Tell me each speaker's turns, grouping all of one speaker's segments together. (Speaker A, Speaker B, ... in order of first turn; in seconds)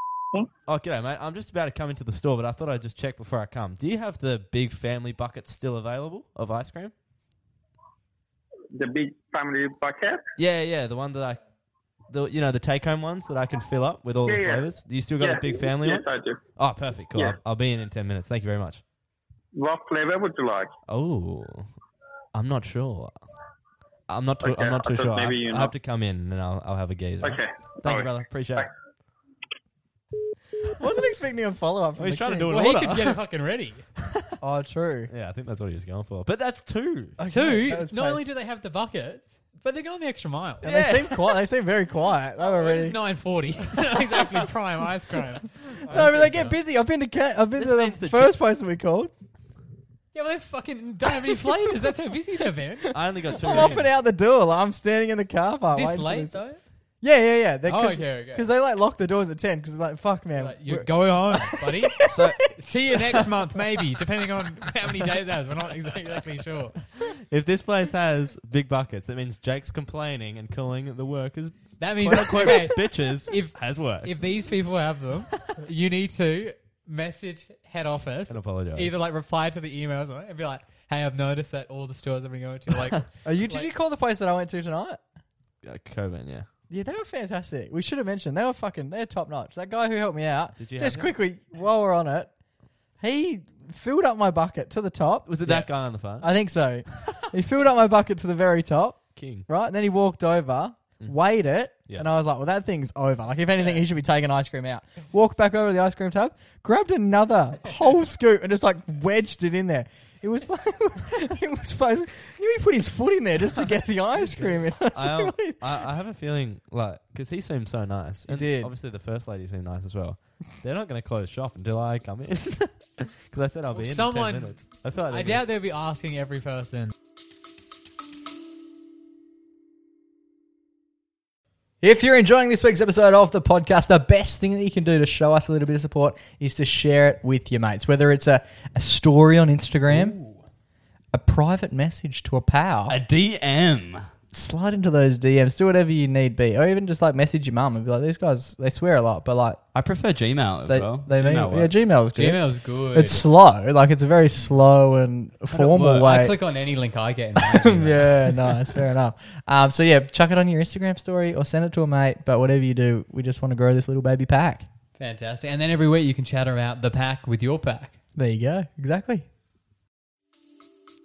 Speaker A: 0.7-6.9, 10.4-11.4, 12.1-18.8, 20.9-21.7, 22.3-23.2, 24.1-28.7, 32.0-33.2, 35.1-37.2, 40.6-41.3, 47.6-48.4, 52.9-53.9, 62.1-62.4, 67.1-74.4, 78.3-78.9, 85.6-86.5, 90.6-91.1, 95.3-96.3, 99.2-99.5, 114.9-125.4, 155.6-156.0
Speaker B: 8.7-10.2, 14.2-14.7, 15.2-16.4, 19.6-20.7, 24.4-25.7, 27.2-28.7
Speaker C: 30.7-32.6, 34.4-35.1, 37.2-38.3, 40.6-43.0, 44.1-44.4, 45.7-49.1, 53.3-56.4, 57.0-62.4, 83.2-85.0, 86.7-92.3, 93.0-116.0, 118.3-118.7, 131.8-140.2, 141.1-143.0, 144.3-149.6, 150.7-156.4, 157.5-164.7, 168.2-169.3
Speaker D: 32.5-33.9, 37.3-40.8, 42.4-46.6, 50.1-53.0, 55.7-56.6, 57.7-58.5, 60.4-66.8, 71.8-83.7, 123.7-126.9, 152.2-153.3, 156.0-158.3, 165.0-168.0
Speaker E: 142.9-144.1, 149.7-151.8